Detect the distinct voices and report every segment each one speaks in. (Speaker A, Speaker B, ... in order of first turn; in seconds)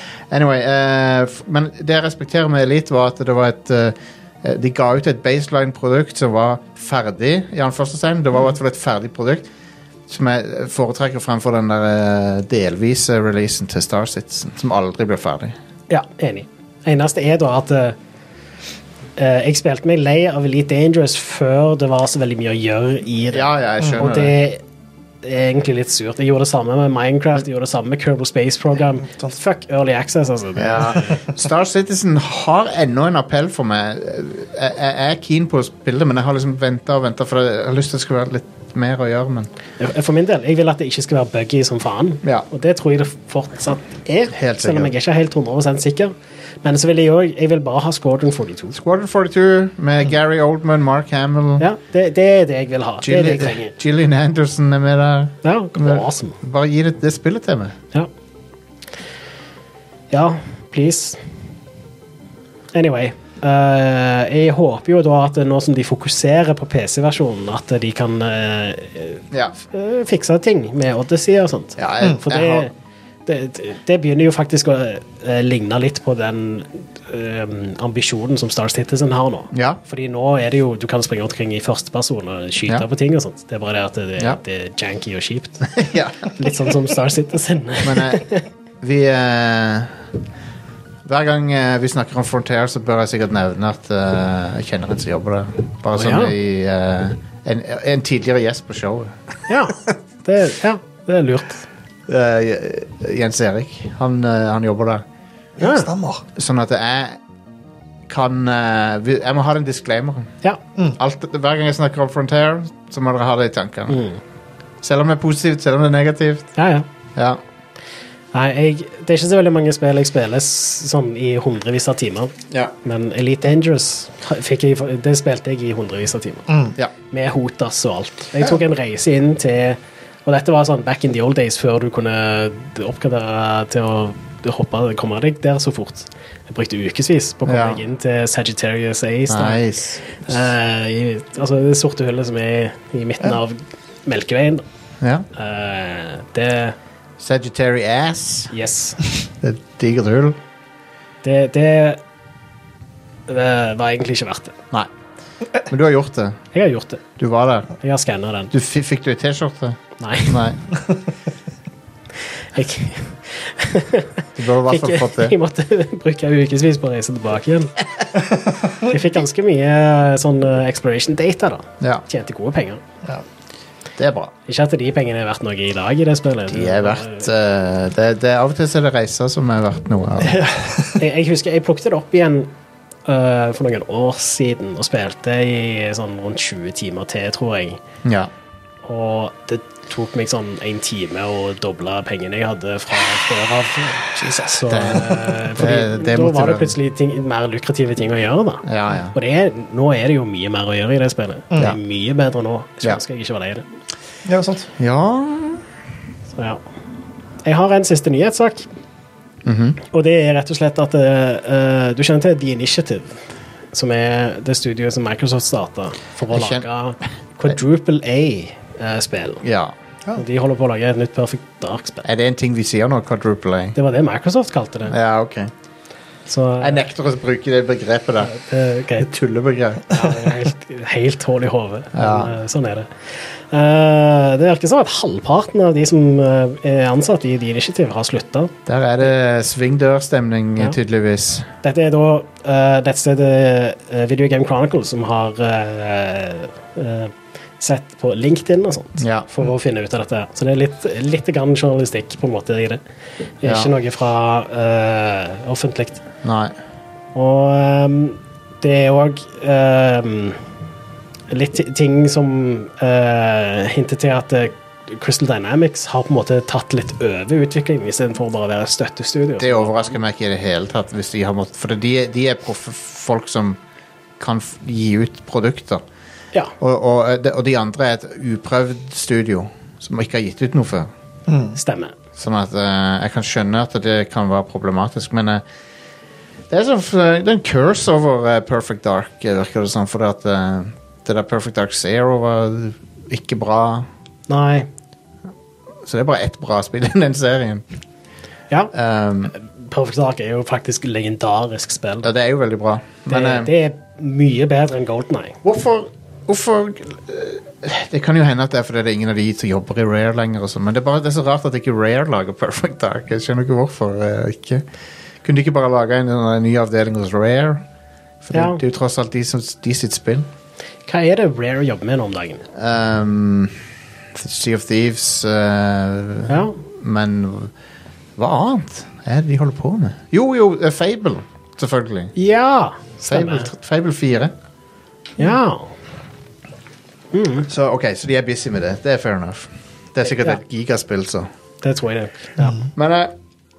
Speaker A: 0.3-9.5, 10.1-15.6, 23.3-24.4, 30.6-39.5, 44.3-44.9, 48.7-51.7, 53.0-57.8, 71.8-72.7, 79.5-79.8, 85.7-86.5, 87.8-88.3, 88.8-90.0, 91.0-99.9, 102.1-105.0, 106.4-107.2, 108.1-110.3, 111.0-114.0, 114.8-116.5, 117.2-117.4, 137.4-137.8, 139.3-140.0, 145.0-145.3, 147.2-148.5, 149.4-150.4, 155.7-156.4, 157.2-157.7, 158.5-160.6, 164.4-165.4, 174.0-174.3, 176.5-180.4, 188.0-188.3, 194.7-196.8, 198.7-199.2, 204.8-205.6, 209.4-209.8, 216.3-216.7, 219.4-219.8, 222.0-223.8, 224.9-225.5, 226.6-228.4, 229.0-230.1, 231.9-232.3, 238.7-241.5, 249.0-249.3, 253.4-253.7, 256.2-256.5, 269.4-273.6, 274.2-275.8, 276.6-280.9, 282.2-285.4, 286.5-293.9, 295.8-297.7, 298.7-299.3, 302.0-303.5, 305.4-314.6, 315.2-317.6, 318.2-320.3, 322.5-323.6, 324.1-327.5, 328.2-332.1, 333.1-334.3, 337.5-341.3, 342.8-343.1
Speaker B: 15.9-18.0, 19.2-24.6, 25.2-31.2, 39.8-46.1, 46.6-48.8, 51.6-53.8, 55.4-56.4, 60.1-61.2, 62.7-72.7, 73.3-85.8, 86.3-88.5, 95.9-96.3, 99.5-101.6, 105.6-105.9, 113.9-114.2, 116.6-116.9, 118.3-122.3, 122.8-126.5, 127.1-144.6, 145.3-146.8, 148.5-149.0, 151.2-152.0, 153.3-154.6, 156.5-157.0, 157.8-158.5, 160.0-160.5, 162.5-167.7, 168.8-172.8, 174.5-177.3, 181.0-182.5, 183.1-187.8, 188.8-203.7, 207.4-208.7, 209.9-213.2, 213.7-219.4, 220.2-222.1, 223.8-224.9, 226.3-226.9, 228.2-229.1, 229.9-238.5, 241.6-252.8, 253.4-256.0, 257.1-260.4, 261.3-270.0, 281.6-281.9, 294.3-294.7, 299.3-302.1, 303.1-305.4, 318.3-318.6, 320.9-322.4, 326.3-326.6, 332.2-333.5, 335.2-335.7, 337.1-337.5, 340.1-340.4, 341.6-342.5
Speaker C: 105.6-106.2, 126.5-126.7, 180.3-181.0, 194.1-195.0, 201.5-201.8, 204.3-204.7, 281.3-281.6, 342.4-342.7